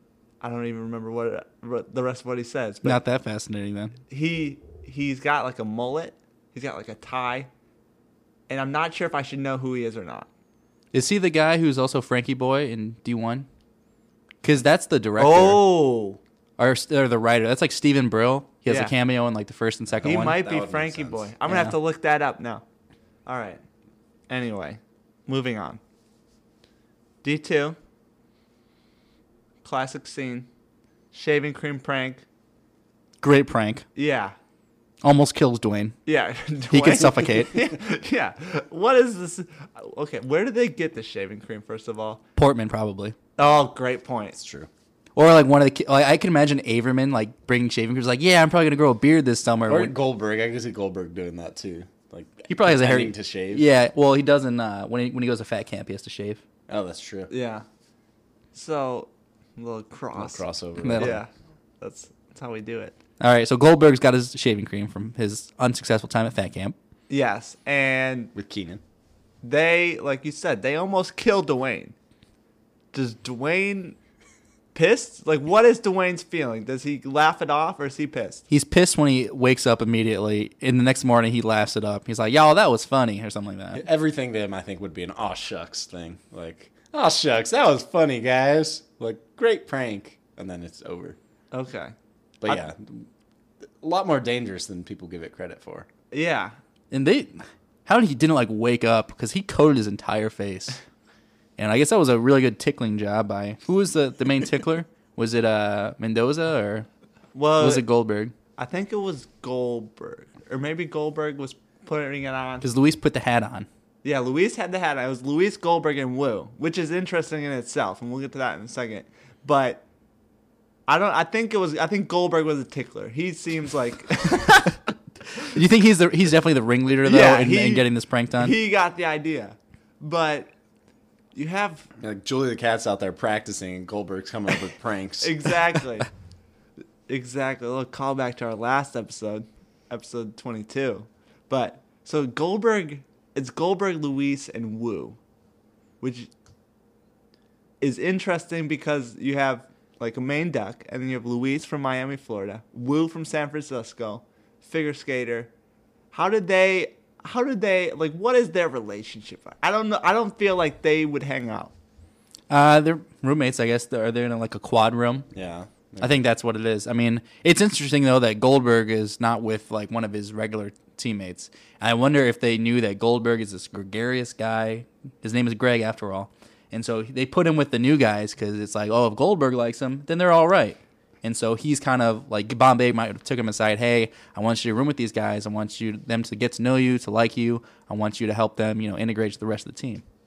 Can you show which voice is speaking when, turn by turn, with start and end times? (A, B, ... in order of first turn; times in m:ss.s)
0:00.4-0:03.0 A
0:02.8-0:04.0 B
0:04.1-0:07.5 A
0:08.5-0:10.3 A
0:10.9-0:13.5 B
0:14.4-0:15.8 B
0:15.2-0:16.2 A
0:16.6-0:20.3 B
0:18.7-0:18.9 A
0:20.0-0:21.3 C
0:20.0-0:22.6 A
0:21.5-0:21.8 B
0:23.3-0:23.6 A
0:24.3-0:25.8 A
0:27.2-0:27.8 A
0:29.6-0:30.5 A
0:31.1-0:32.2 A
0:33.2-0:33.8 B
0:34.0-0:34.4 A
0:35.0-0:36.0 B
0:36.1-0:42.2 A
0:36.7-0:37.7 B
0:42.4-0:43.2 B
0:43.4-0:44.4 A
0:44.4-0:44.7 C
0:45.2-0:49.9 B
0:49.7-0:53.7 C
0:52.5-0:56.4 B
0:56.7-0:57.3 C
0:57.3-0:57.6 A
0:58.5-1:00.4 A
1:00.2-1:01.2 C
1:00.8-1:01.2 B
1:01.0-1:03.0 A
1:03.2-1:06.8 B
1:07.1-1:08.3 A
1:08.4-1:08.8 C
1:09.4-1:12.0 A
1:12.9-1:14.0 A
1:14.7-1:18.4 A
1:18.5-1:23.8 B
1:23.7-1:31.2 C
1:31.5-1:31.9 A
1:32.4-1:33.1 C
1:33.8-1:35.9 C
1:36.1-1:36.6 A
1:36.9-1:40.8 B
1:41.6-1:46.9 B
1:47.4-1:47.8 A
1:47.6-1:48.3 B
1:48.6-1:52.6 A
1:52.6-1:53.7 B
1:54.0-1:59.8 A
2:00.9-2:04.7 A
2:05.4-2:08.6 B
2:07.0-2:10.5 A
2:11.3-2:11.9 A
2:12.0-2:15.5 C
2:15.2-2:16.1 A
2:17.1-2:25.2 A
2:26.0-2:26.3 A
2:27.8-2:35.5 A
2:36.1-2:41.7 A
2:42.5-2:45.3 B
2:45.3-2:46.2 C
2:46.0-3:10.0 B